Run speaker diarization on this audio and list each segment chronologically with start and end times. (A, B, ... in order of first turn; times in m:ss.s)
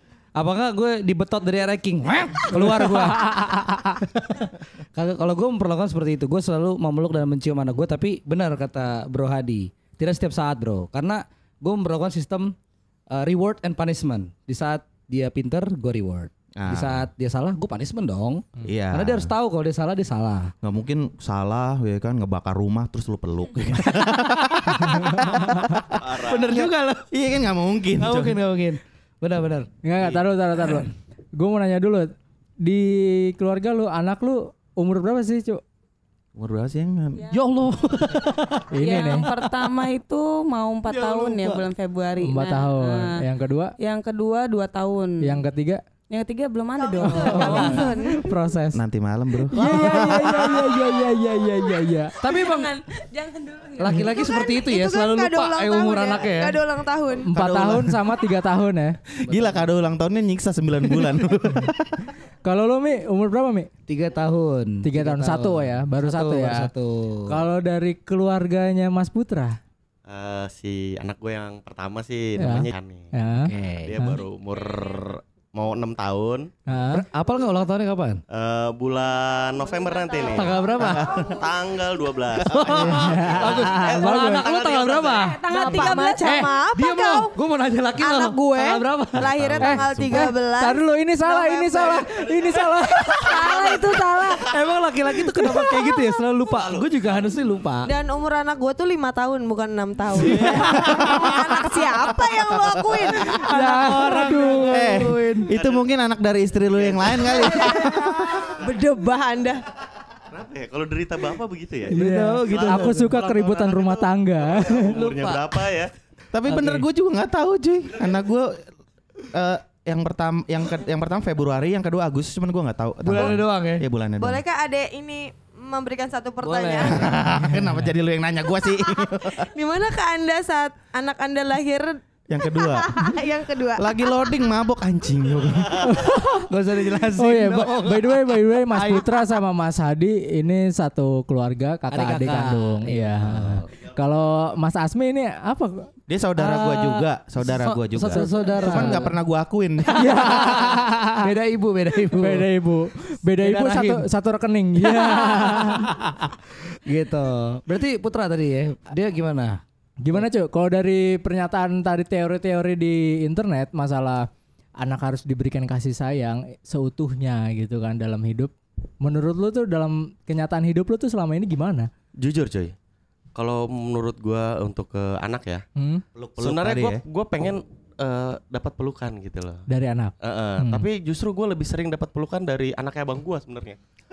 0:00.4-0:12.5 A
0:03.2-0:04.0 B
0:13.1-0:20.5 A
0:16.6-0:17.1 C
0:18.7-0:19.3 C
0:20.6-0:28.4 C
0:23.9-0:24.7 A
0:24.9-0:25.4 B
0:26.0-0:26.4 D
0:26.1-0:27.0 A
0:28.0-0:29.7 A
0:29.8-0:35.6 B
0:36.4-0:37.3 C
0:37.3-0:38.7 A
0:38.7-0:39.3 B
0:38.8-0:43.2 E
0:40.9-0:41.6 A
0:42.2-0:43.7 B
0:43.8-0:45.4 E
0:45.2-0:45.8 B
0:46.1-0:48.0 E
0:46.8-0:48.3 F
0:47.0-0:48.8 B
0:48.7-0:50.7 C
0:49.5-0:52.2 B
0:52.2-0:52.8 A
0:52.2-0:54.0 E
0:53.8-0:56.6 A
0:54.1-0:57.3 F
0:57.3-0:59.0 B
0:57.3-0:58.2 C
0:59.2-1:02.1 C
0:59.3-0:59.7 A
1:02.4-1:03.7 B
1:03.9-1:07.4 A
1:04.8-1:06.7 B
1:07.3-1:09.6 B
1:10.1-1:13.1 D
1:12.4-1:14.2 B
1:13.5-1:14.0 A
1:13.8-1:16.5 D
1:16.7-1:17.0 B
1:16.9-1:18.2 A
1:18.3-1:25.4 D
1:20.2-1:21.2 A
1:22.4-1:25.4 A
1:22.9-1:24.5 B
1:25.1-1:26.4 E
1:25.5-1:27.3 F
1:26.2-1:29.3 A
1:28.0-1:32.3 F
1:29.2-1:30.3 C
1:29.6-1:34.0 B
1:33.1-1:34.5 F
1:34.3-1:37.9 A
1:36.4-1:37.3 D
1:37.9-1:43.5 F
1:40.3-1:41.2 A
1:40.3-1:41.4 C
1:42.5-1:43.2 C
1:43.3-1:45.1 B
1:43.4-1:45.5 A
1:44.7-1:48.6 C
1:45.5-1:45.9 D
1:46.7-1:47.7 D
1:47.5-1:49.7 F
1:50.3-1:55.9 D
1:51.9-1:53.1 A
1:51.9-1:54.9 B
1:54.8-1:55.5 A
1:56.3-1:58.6 C
1:56.5-1:56.8 A
1:59.2-2:04.4 C
2:03.0-2:03.9 A
2:04.2-2:07.1 F
2:06.4-2:07.0 A
2:06.8-2:09.5 C
2:07.4-2:07.8 B
2:09.2-2:14.4 F
2:12.3-2:13.2 C
2:13.8-2:16.0 C
2:15.8-2:16.5 B
2:16.5-2:19.2 A
2:17.2-2:25.9 B
2:21.9-2:23.7 A
2:26.1-2:30.3 C
2:26.4-2:29.2 A
2:28.0-2:29.1 B
2:29.9-2:31.3 B
2:29.9-2:32.5 A
2:32.2-2:36.3 B
2:33.3-2:34.1 A
2:34.8-2:36.1 A
2:36.7-2:39.6 A
2:40.0-2:44.3 B
2:44.8-2:51.9 B
2:52.2-2:52.7 D
2:53.4-2:55.6 D
2:55.8-2:56.0 B
2:56.2-2:57.0 C
2:56.4-2:59.7 D
2:59.7-3:00.9 B
3:00.2-3:03.8 D